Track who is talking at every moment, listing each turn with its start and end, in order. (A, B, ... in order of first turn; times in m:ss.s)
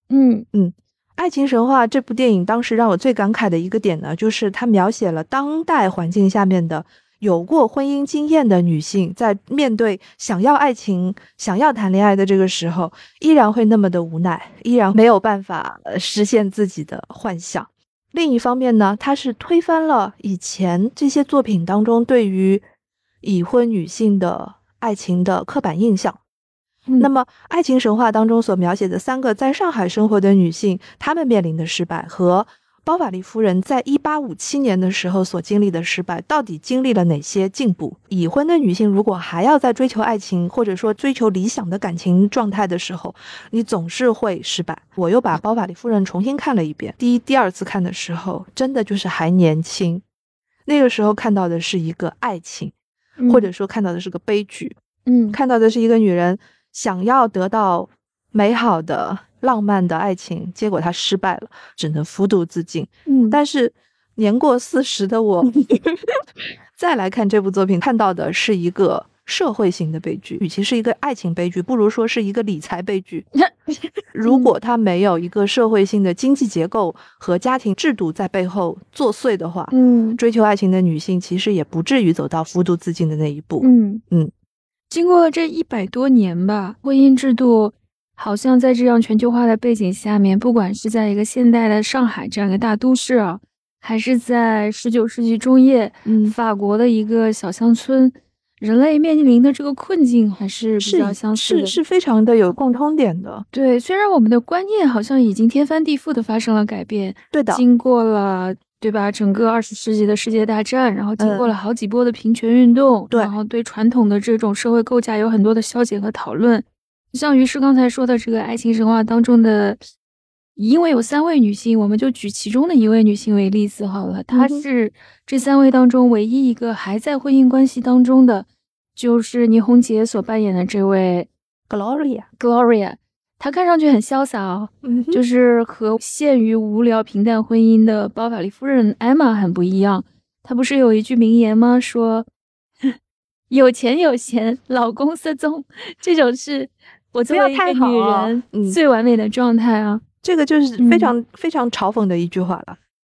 0:00.1-0:00.4 A
0:00.5-0:22.6 B
0:23.2-0:26.2 B
0:27.0-0:50.0 B
0:50.6-0:52.7 B
0:53.2-0:53.5 A
0:53.3-0:54.8 B
0:55.0-0:55.4 A
0:55.3-1:05.5 B
1:03.0-1:03.4 A
1:06.8-1:13.3 B
1:13.4-1:14.5 A
1:14.1-1:24.3 B
1:19.7-1:20.2 A
1:23.6-1:24.0 A
1:24.9-1:41.8 A
1:36.0-1:36.3 B
1:40.8-1:43.4 B
1:43.5-1:59.8 A
1:47.3-1:47.6 B
1:51.2-1:51.5 B
2:00.6-2:11.3 A
2:04.3-2:04.6 B
2:11.7-2:12.3 B
2:12.4-2:22.3 A
2:14.8-2:15.2 B
2:23.5-2:30.0 A
2:27.3-2:28.8 B
2:30.2-2:32.8 B
2:30.8-2:31.1 A